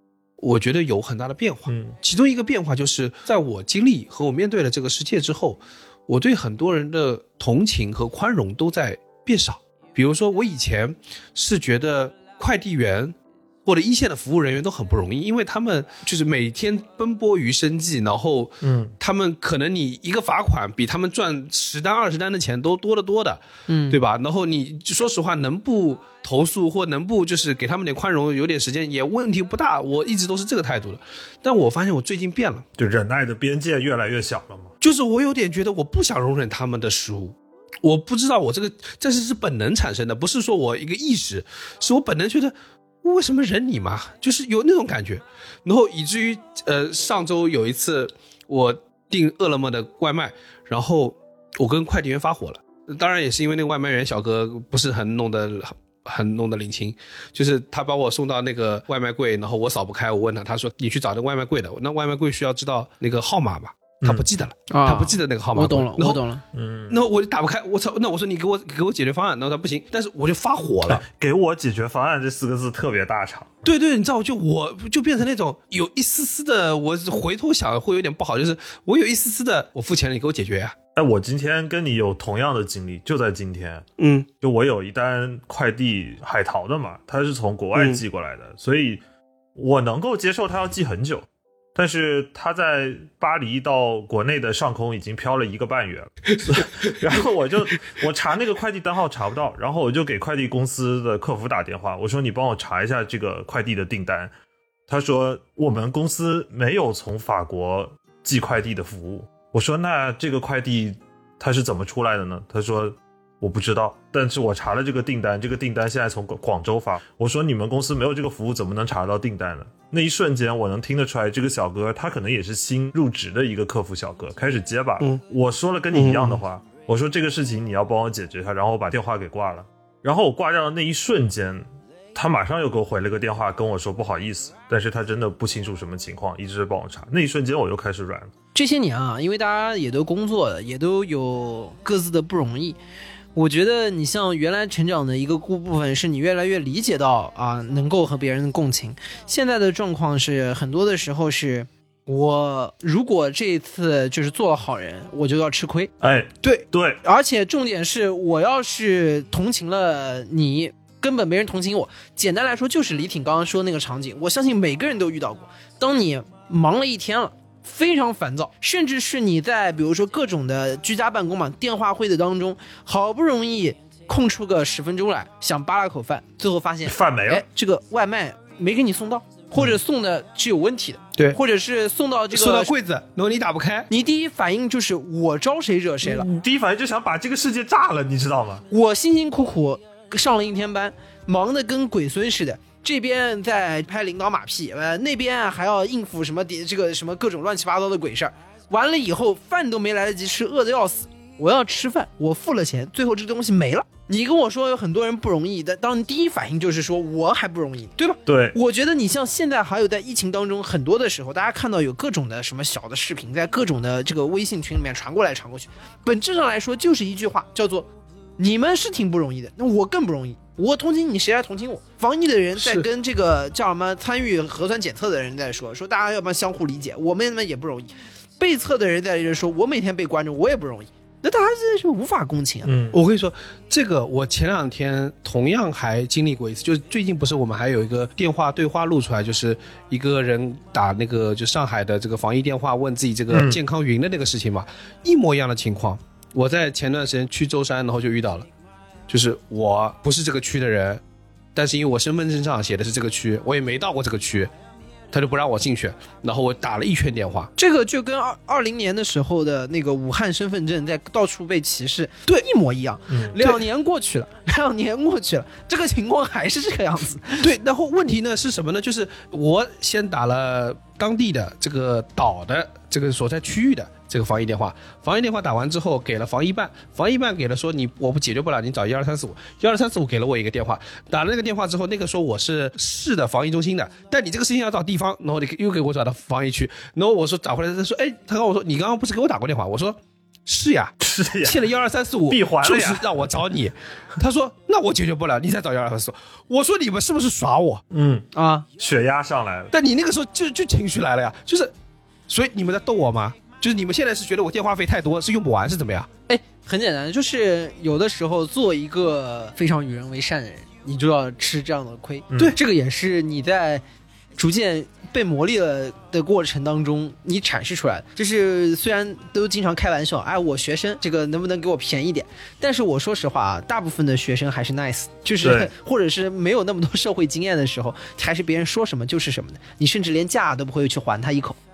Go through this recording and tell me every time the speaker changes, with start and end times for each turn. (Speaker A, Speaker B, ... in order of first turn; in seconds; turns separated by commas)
Speaker A: 0.4-32.7, Speaker B: 1.7-2.0, Speaker B: 18.6-18.9, Speaker C: 23.7-24.0, Speaker B: 32.8-34.7, Speaker A: 34.8-66.2, Speaker B: 64.0-64.3, Speaker C: 64.7-66.4, Speaker B: 66.5-67.0, Speaker A: 66.9-71.0, Speaker B: 70.8-73.6, Speaker A: 73.6-80.8, Speaker B: 81.0-83.8, Speaker A: 84.0-84.3, Speaker B: 84.4-89.0, Speaker A: 87.7-88.0, Speaker B: 89.6-104.3, Speaker B: 104.9-138.3, Speaker A: 125.9-126.4, Speaker C: 138.5-142.8, Speaker C: 143.3-155.9, Speaker B: 156.0-157.0, Speaker C: 157.0-182.7, Speaker B: 176.9-177.4, Speaker A: 182.3-183.9, Speaker C: 183.9-186.3, Speaker B: 186.0-188.7, Speaker C: 188.7-232.7, Speaker B: 208.3-208.6, Speaker A: 222.6-222.8, Speaker B: 232.7-233.0, Speaker A: 232.9-248.5, Speaker B: 243.3-243.6, Speaker A: 249.1-251.0, Speaker A: 251.6-254.5, Speaker A: 255.1-257.5, Speaker C: 257.6-267.5, Speaker A: 267.4-297.8, Speaker B: 291.0-291.7, Speaker B: 292.3-293.2, Speaker B: 297.9-298.3, Speaker C: 298.3-298.7, Speaker B: 298.8-299.7, Speaker A: 299.7-301.7, Speaker A: 302.3-306.1, Speaker C: 306.3-313.8, Speaker C: 314.4-331.6, Speaker B: 325.4-325.7